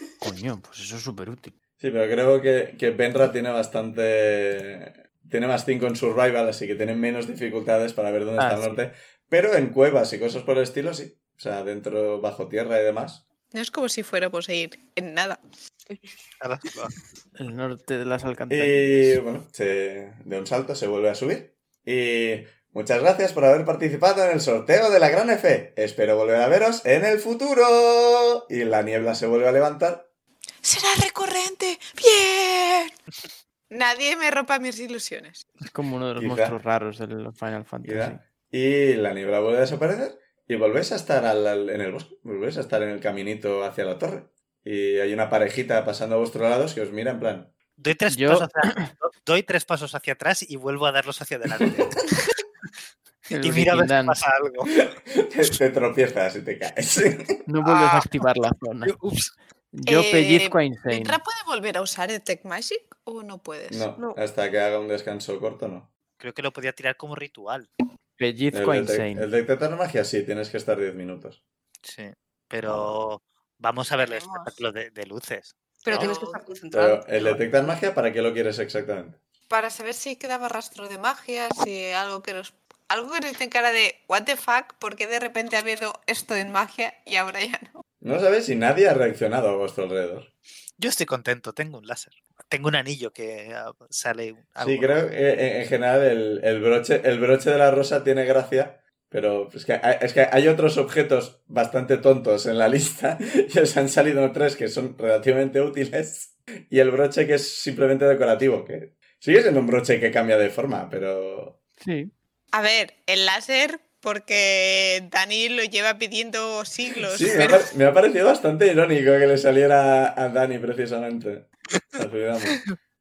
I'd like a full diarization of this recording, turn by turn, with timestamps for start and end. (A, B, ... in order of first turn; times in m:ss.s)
0:00.2-0:01.5 A
0:01.8-0:13.2 B
0:08.4-0:08.8 A
0:13.5-0:15.4 C
0:16.4-0:16.9 D
0:17.4-0:19.2 A
0:18.5-0:30.1 B
0:30.6-0:32.9 C
0:33.7-0:35.5 C
0:35.7-0:38.2 A
0:36.2-0:36.6 B
0:37.8-0:47.5 B
0:47.8-0:52.2 D
0:48.1-0:48.9 A
0:53.3-0:54.2 A
0:53.3-0:54.7 D
0:54.8-0:57.3 B
0:57.5-0:59.0 A
0:58.8-0:59.3 D
0:59.7-1:01.2 A
0:59.8-1:03.9 C
1:03.7-1:05.9 B
1:06.2-1:07.7 D
1:08.2-1:09.3 A
1:08.5-1:11.4 B
1:11.8-1:15.5 D
1:14.0-1:14.6 C
1:15.8-1:17.8 E
1:15.9-1:16.4 C
1:16.7-1:19.2 B
1:19.5-1:27.8 C
1:28.0-1:30.3 B
1:30.8-1:35.0 D
1:34.6-1:51.6 B
1:51.8-1:52.1 A
1:52.5-1:57.7 C
1:57.1-2:02.6 B